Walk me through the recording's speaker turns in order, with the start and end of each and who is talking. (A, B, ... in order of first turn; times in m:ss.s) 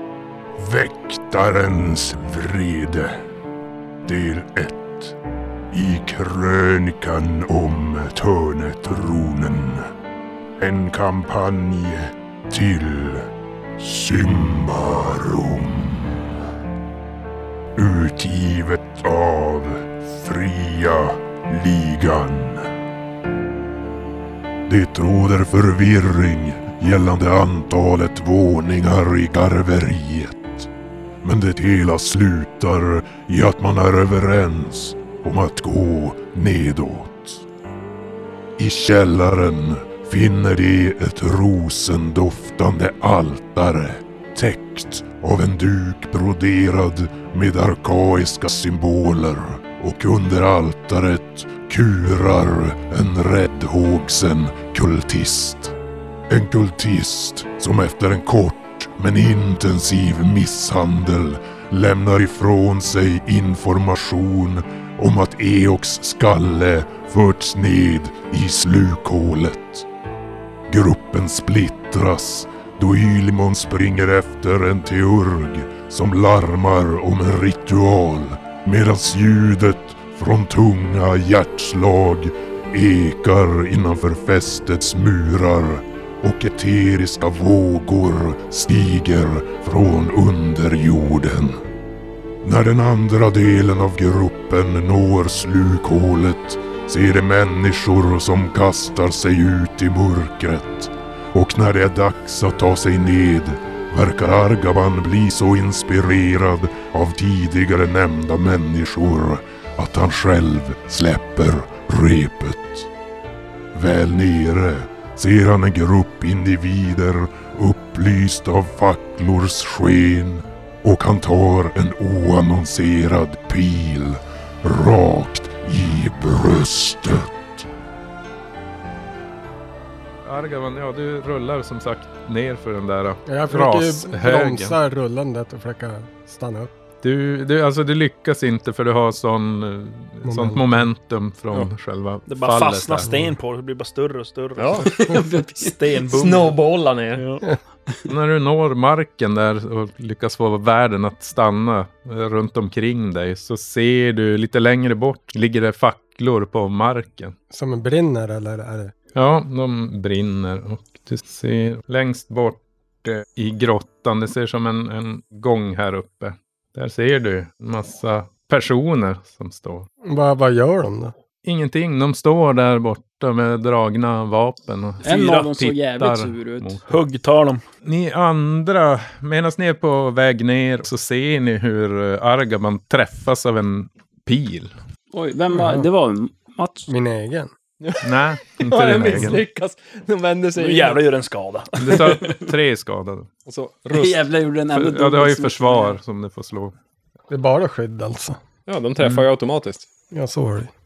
0:00.6-0:03.2 A
0:04.0-0:05.2 A
0:05.7-0:09.9 A
0:10.6-0:16.3 A
0:17.8-0:22.7 A
0:24.7-0:30.7 A
0:31.2-0:37.4 A
0:38.6-0:55.7 A
0:56.3-1:09.8 A
1:10.7-1:31.6 A
1:32.4-1:52.9 A
1:53.7-2:07.6 A
2:10.2-2:14.8 B
2:13.3-2:16.7 C
2:17.0-2:23.1 B
2:20.2-2:20.8 C
2:22.2-2:26.6 D
2:24.6-2:25.1 E
2:25.0-2:25.7 F
2:26.0-2:27.2 E
2:27.1-2:27.4 D
2:28.1-2:37.3 B
2:37.5-2:38.9 C
2:39.1-2:49.9 B
2:50.0-2:51.1 C
2:51.4-2:56.8 B
2:55.0-2:56.8 F
2:56.8-2:57.6 D
2:57.8-3:04.7 B
3:05.1-3:06.9 F
3:06.9-3:07.5 C
3:07.8-3:11.0 E
3:08.0-3:09.4 B
3:10.5-3:12.1 D
3:11.8-3:13.3 B
3:13.4-3:14.3 E
3:13.9-3:16.0 F
3:14.7-3:16.7 B
3:17.3-3:18.4 C
3:18.7-3:19.8 E
3:19.0-3:19.3 B
3:20.1-3:20.7 C